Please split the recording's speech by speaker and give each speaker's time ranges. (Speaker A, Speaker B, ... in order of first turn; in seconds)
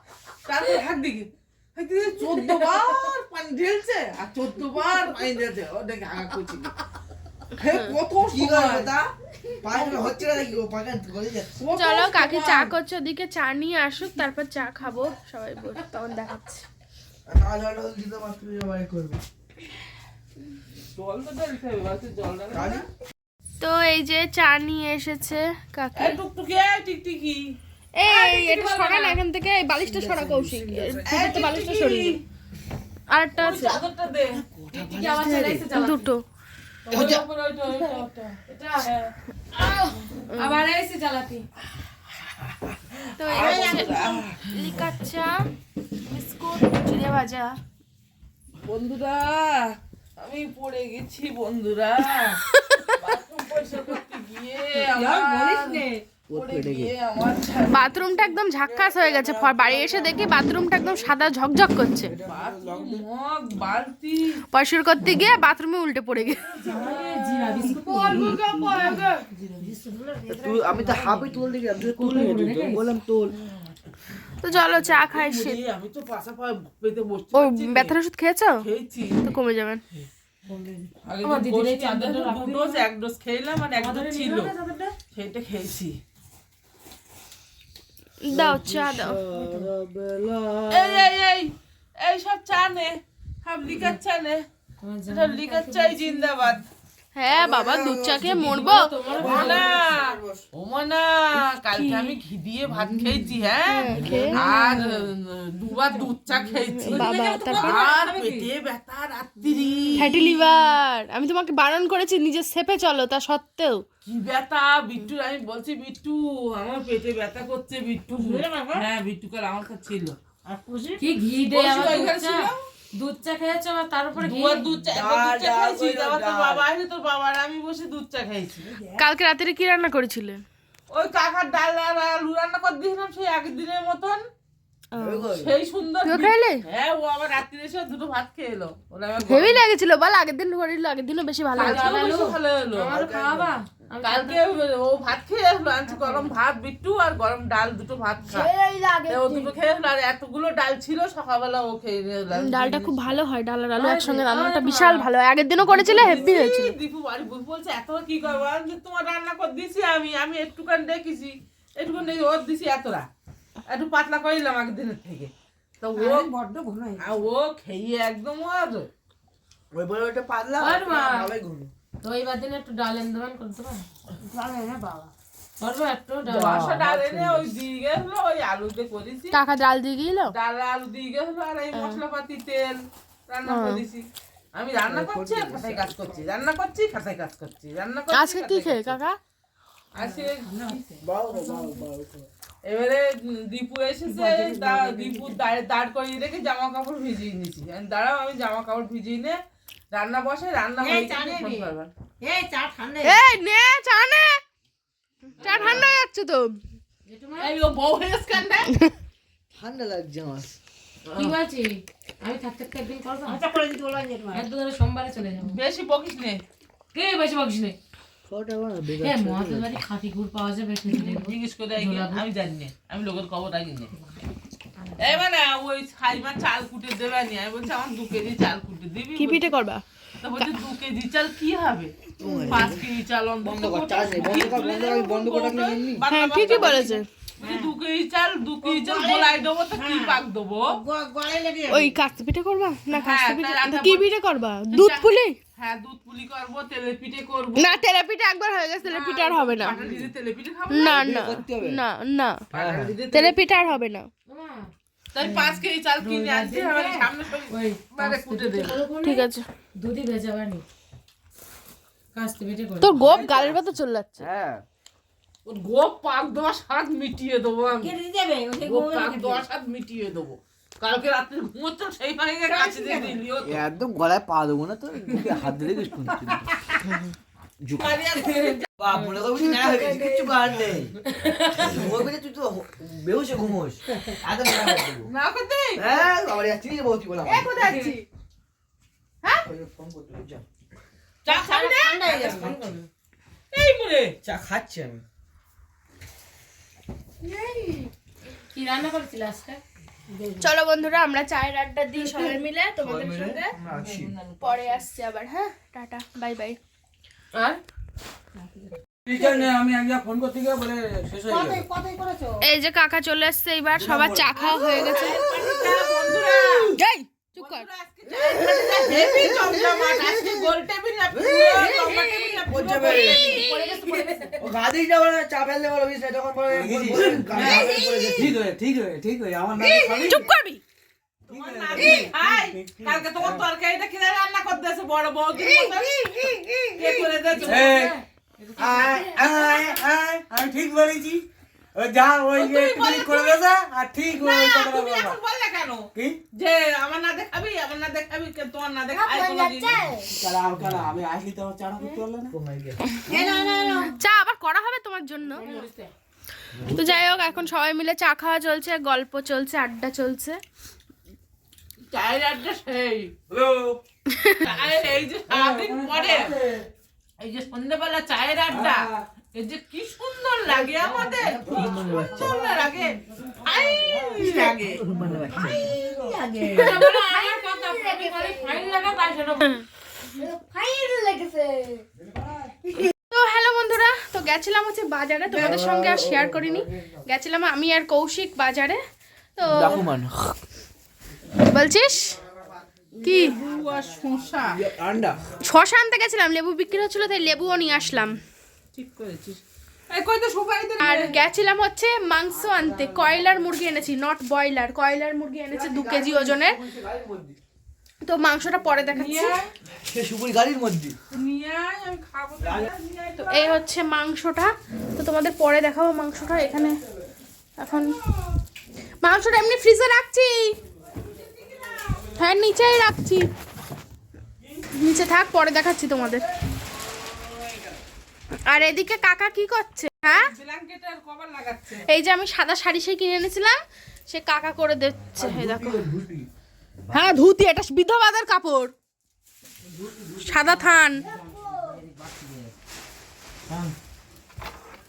Speaker A: 0.4-6.8, 7.6-8.9, 11.6-12.7, 20.9-22.9, 25.9-27.5, 28.1-29.2, 31.0-32.2, 33.4-34.5, 36.8-38.3, 43.3-44.4, 48.6-58.4, 59.3-60.1, 62.3-64.4, 66.6-69.6, 74.5-77.9, 78.6-79.3, 81.0-84.5, 85.1-86.0, 90.7-94.4, 95.1-96.7, 99.1-110.3, 114.0-120.2, 121.5-122.6, 124.2-128.8, 130.9-134.2, 135.3-139.6, 141.6-142.9, 144.0-148.5, 149.1-153.2, 155.6-163.1, 163.7-166.3, 167.0-168.9, 176.2-179.4, 180.3-189.0, 189.9-190.9, 192.7-199.4, 199.9-201.9, 207.4-208.7, 215.4-216.4, 220.9-223.9, 225.0-229.5, 230.2-240.8, 242.9-244.1, 244.7-247.8, 248.8-251.1, 252.5-253.4, 255.1-258.8, 265.4-268.0, 268.6-273.6, 277.8-278.6, 284.6-286.1, 287.3-288.0, 291.2-292.8, 293.5-294.2, 297.3-297.9, 303.6-304.8, 314.1-316.7, 317.4-324.3, 327.1-327.8, 331.3-337.9, 342.3-343.4, 344.1-349.9, 355.3-355.9, 361.9-363.1, 364.4-366.4, 367.2-374.9, 389.5-390.1, 393.0-394.7, 398.7-401.2, 408.9-409.5, 411.1-413.6, 421.0-422.1, 430.1-431.9
Speaker B: 7.6-7.9, 11.7-16.7, 23.6-26.2, 28.0-32.2, 33.1-33.8, 35.7-36.2, 36.9-37.2, 40.3-40.6, 43.1-45.3, 46.0-47.5, 52.2-53.0, 57.7-62.1, 64.5-66.5, 74.4-75.6, 77.3-78.6, 79.2-79.8, 88.2-89.2, 97.1-98.9, 103.7-104.4, 106.8-107.8, 110.0-113.8, 129.0-130.4, 134.9-135.3, 136.0-136.6, 139.2-141.9, 152.3-156.7, 179.3-180.3, 181.7-182.0, 183.4-183.8, 188.1-189.2, 203.0-204.4, 205.4-206.6, 229.1-229.8, 236.1-237.0, 241.7-245.4, 247.6-249.8, 250.7-252.4, 253.1-254.1, 259.0-259.4, 262.8-264.3, 287.3-288.0, 300.4-303.5, 304.4-306.6, 312.4-315.2, 316.7-317.7, 321.6-322.4, 323.1-323.7, 327.4-328.1, 329.6-330.6, 331.8-332.0, 336.1-336.4, 353.1-355.5, 356.6-360.4, 364.1-364.4, 376.5-377.4, 383.1-388.8, 389.4-389.9, 391.4-392.2, 393.0-393.4, 395.4-398.2, 400.8-406.6, 408.0-409.4, 413.3-416.7, 417.6-417.9, 419.0-420.5, 422.1-423.2, 424.7-426.2, 428.5-430.2, 431.8-433.6, 434.1-435.9, 436.9-438.7, 440.2-441.1
Speaker C: 8.2-9.1, 9.6-11.6, 17.3-19.2, 22.5-22.9, 29.9-31.2, 34.3-35.7, 54.9-56.9, 58.7-60.4, 62.0-63.0, 68.1-69.0, 70.3-73.4, 88.3-91.1, 97.3-98.5, 99.1-100.4, 102.7-103.3, 104.0-104.7, 124.9-126.6, 135.0-135.5, 142.9-143.5, 169.7-171.7, 176.6-177.5, 184.9-186.2, 191.0-192.2, 209.6-210.5, 218.2-219.8, 232.2-232.8, 233.4-236.7, 249.7-250.1, 250.8-251.8, 252.5-253.0, 264.2-264.6, 273.4-277.9, 278.8-280.9, 281.5-285.1, 285.8-287.6, 289.4-290.4, 292.0-292.7, 294.2-295.0, 302.8-304.1, 318.7-320.3, 321.1-321.7, 322.5-323.4, 324.4-328.4, 329.6-330.2, 331.3-332.3, 350.6-350.9, 352.3-352.8, 370.5-372.7, 374.1-376.7, 385.3-386.7, 389.6-390.1, 394.5-395.2, 402.5-403.0, 405.5-407.4, 409.8-410.9, 412.4-412.7, 441.6-442.3
Speaker D: 34.7-36.1, 36.9-38.9, 39.5-41.4, 66.8-68.4, 69.6-72.8, 80.5-82.8, 83.8-84.9, 89.3-89.7, 94.8-96.3, 98.2-99.6, 101.7-102.2, 104.7-105.0, 107.1-108.5, 121.0-124.7, 141.7-144.4, 145.9-146.3, 153.7-155.0, 170.6-171.3, 172.0-173.8, 175.6-176.8, 191.4-191.8, 202.2-203.1, 205.4-205.8, 207.1-207.5, 211.1-213.5, 214.3-215.6, 216.9-217.8, 219.0-222.2, 224.8-225.2, 254.3-260.6, 262.1-263.0, 281.2-281.8, 298.4-299.6, 307.3-307.6, 308.4-308.7, 323.4-324.4, 337.3-339.2, 376.6-379.5
Speaker E: 43.3-44.2, 68.1-68.9, 70.3-70.9, 118.1-118.8, 120.5-121.0, 148.3-149.5, 165.9-167.0, 174.2-175.1, 194.1-195.2, 200.8-201.6, 202.2-203.2, 213.3-214.5, 237.4-237.7, 238.7-241.8, 267.8-269.4, 272.5-273.2, 279.4-280.3, 291.3-292.5, 309.1-309.5, 311.2-312.4, 322.6-323.1, 326.8-328.4, 329.7-330.1, 331.8-332.1, 336.3-336.8, 337.3-337.9, 338.7-339.8, 342.4-342.9, 344.3-344.9, 348.9-350.1, 351.5-351.9, 353.1-354.0, 365.5-365.8, 371.6-372.3, 375.1-376.9, 377.6-378.9, 380.2-381.8
Speaker F: 309.1-311.6, 326.5-327.4, 328.6-330.1, 337.5-337.9, 338.8-341.2, 341.8-345.2, 350.6-352.3